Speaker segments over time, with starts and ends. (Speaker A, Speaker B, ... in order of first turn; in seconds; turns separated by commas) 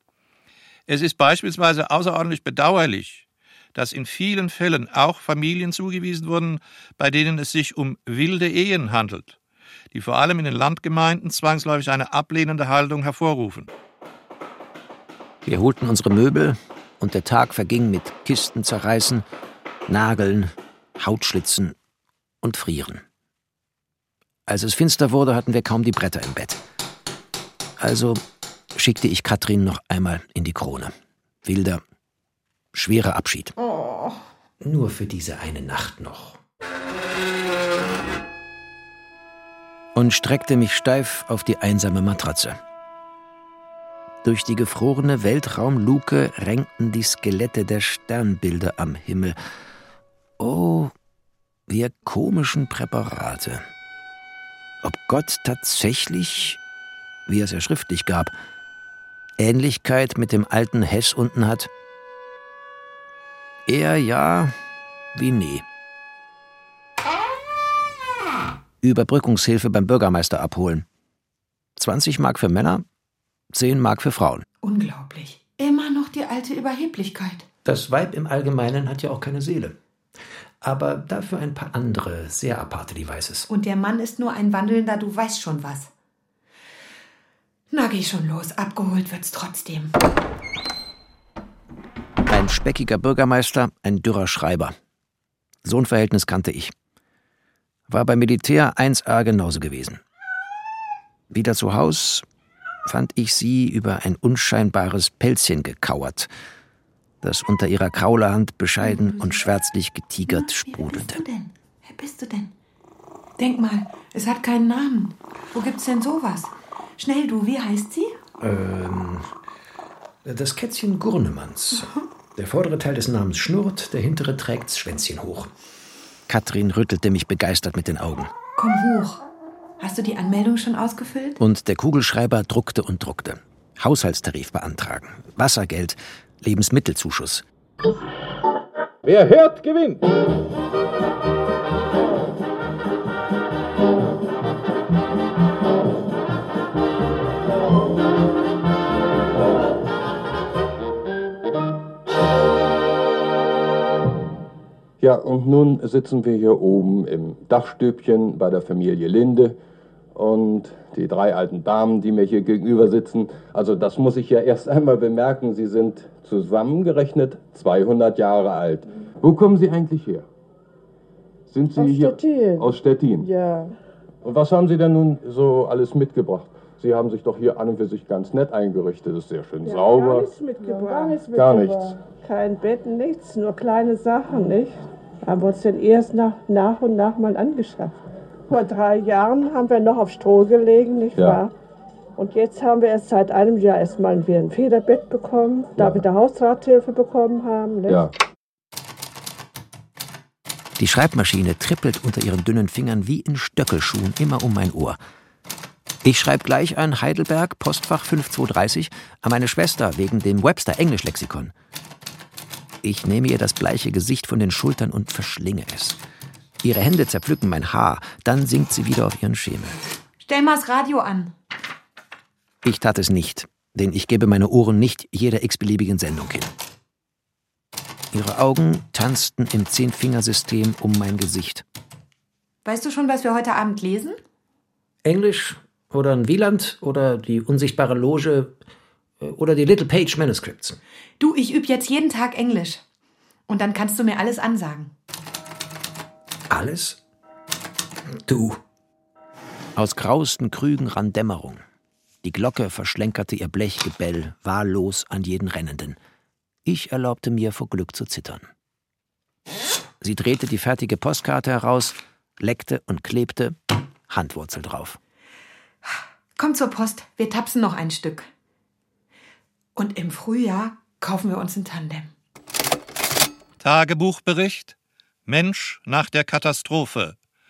Speaker A: 0.9-9.3, Speaker A: 9.9-13.7, Speaker B: 15.4-19.2, Speaker B: 19.9-21.7, Speaker B: 22.4-23.0, Speaker B: 24.5-26.6, Speaker B: 27.8-28.2, Speaker B: 28.8-31.8, Speaker B: 32.7-33.5, Speaker C: 33.6-34.2, Speaker B: 34.6-36.4, Speaker B: 39.9-42.6, Speaker B: 44.2-49.4, Speaker B: 50.4-50.9, Speaker B: 51.7-53.6, Speaker B: 54.8-56.6, Speaker B: 57.3-58.3, Speaker B: 59.4-61.7, Speaker B: 63.6-64.5, Speaker B: 65.1-65.6, Speaker B: 68.8-70.8, Speaker B: 71.8-72.8, Speaker B: 73.5-74.4, Speaker C: 74.6-77.4, Speaker B: 77.6-79.8, Speaker B: 80.6-83.5, Speaker C: 83.5-85.9, Speaker C: 87.7-89.9, Speaker B: 92.3-94.7, Speaker B: 95.6-96.7, Speaker B: 97.9-100.0, Speaker B: 101.3-102.2, Speaker B: 102.8-106.3, Speaker B: 107.2-111.2, Speaker C: 108.8-109.4, Speaker C: 110.3-112.5, Speaker C: 113.4-118.1, Speaker B: 118.4-119.3, Speaker B: 120.2-125.5, Speaker B: 126.3-128.3, Speaker C: 128.6-129.2, Speaker C: 129.8-131.4, Speaker B: 131.4-137.4, Speaker D: 155.0-159.5, Speaker D: 160.1-170.2, Speaker D: 171.5-173.3, Speaker E: 171.8-173.7, Speaker D: 174.2-180.3, Speaker E: 179.6-191.5, Speaker D: 181.3-181.9, Speaker E: 192.2-198.0, Speaker D: 195.8-196.0, Speaker B: 200.8-205.0, Speaker B: 206.0-211.5, Speaker B: 212.8-216.0, Speaker B: 216.6-219.8, Speaker C: 220.2-221.3, Speaker B: 222.6-226.5, Speaker B: 228.1-231.6, Speaker C: 232.6-234.2, Speaker B: 235.0-238.5, Speaker B: 239.2-240.8, Speaker C: 241.2-242.8, Speaker C: 243.5-244.9, Speaker B: 246.5-247.0, Speaker B: 248.1-248.6, Speaker B: 249.7-251.6, Speaker B: 252.2-256.0, Speaker B: 256.6-258.5, Speaker B: 260.0-265.0, Speaker C: 265.8-268.3, Speaker C: 269.8-272.1, Speaker A: 273.6-274.7, Speaker A: 275.2-277.1